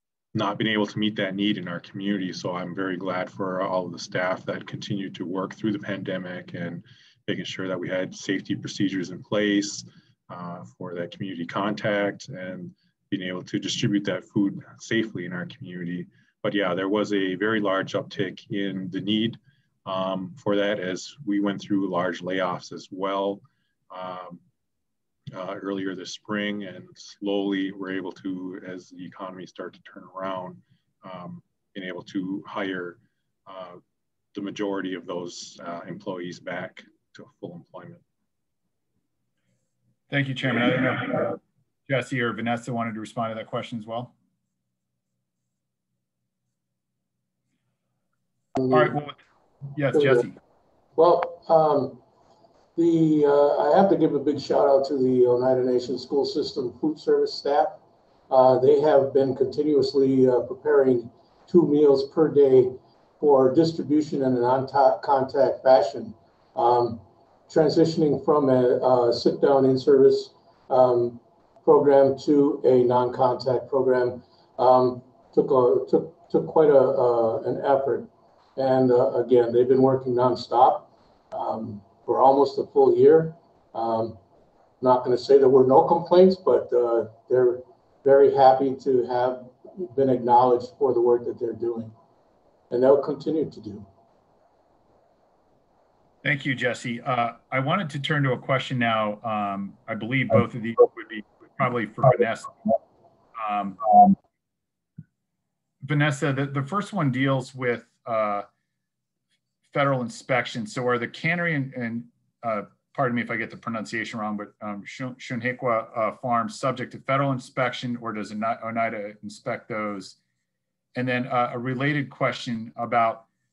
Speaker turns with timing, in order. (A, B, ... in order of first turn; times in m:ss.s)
0:00.3-0:24.4 A
0:25.3-0:33.8 A
0:34.3-0:38.0 A
0:40.1-0:44.1 B
0:48.6-0:48.9 C
0:48.7-0:49.2 B
0:49.7-0:50.3 B
0:49.9-0:50.3 C
0:51.0-0:52.0 C
0:52.8-1:24.2 C
1:24.8-1:31.9 C
1:32.7-1:33.9 C
1:36.2-1:42.7 B
1:43.4-1:43.9 B
1:45.8-1:48.4 B
1:49.7-2:00.2 B
2:00.9-2:03.3 B